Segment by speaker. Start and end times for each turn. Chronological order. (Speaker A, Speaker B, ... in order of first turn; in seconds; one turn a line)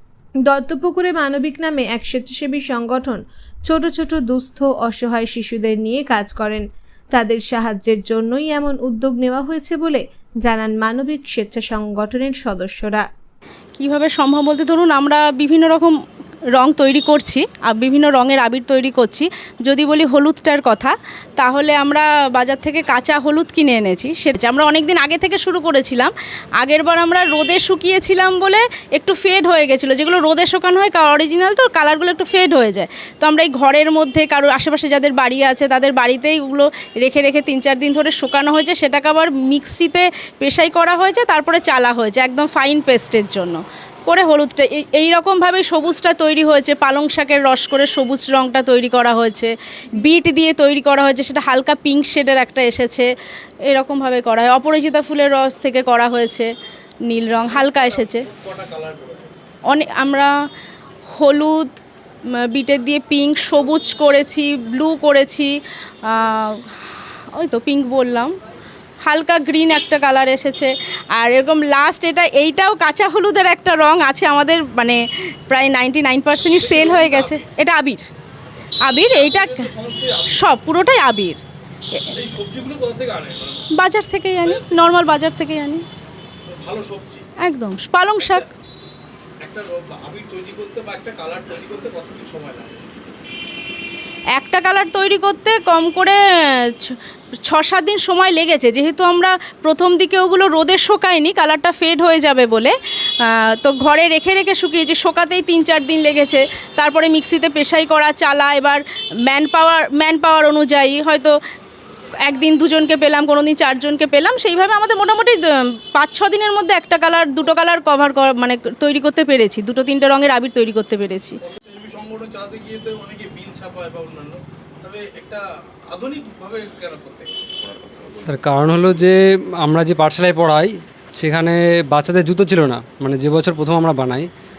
Speaker A: 0.5-13.1
Speaker B: 13.8-15.9
Speaker B: 16.6-53.1
Speaker B: 53.7-56.5
Speaker B: 57.1-58.2
Speaker C: 57.5-59.3
Speaker B: 59.7-60.3
Speaker B: 61.1-61.8
Speaker B: 62.4-65.5
Speaker B: 66.0-66.7
Speaker B: 67.3-68.3
Speaker B: 69.0-78.1
Speaker C: 76.5-77.4
Speaker B: 78.8-79.7
Speaker C: 79.0-80.5
Speaker B: 80.3-81.4
Speaker C: 82.1-83.7
Speaker B: 83.7-85.8
Speaker C: 84.4-84.7
Speaker C: 86.5-87.3
Speaker B: 87.4-88.4
Speaker C: 88.2-88.5
Speaker C: 89.4-92.8
Speaker B: 94.3-97.0
Speaker B: 97.5-111.3
Speaker B: 112.2-115.4
Speaker B: 115.9-121.4
Speaker C: 121.4-127.4
Speaker D: 128.2-134.3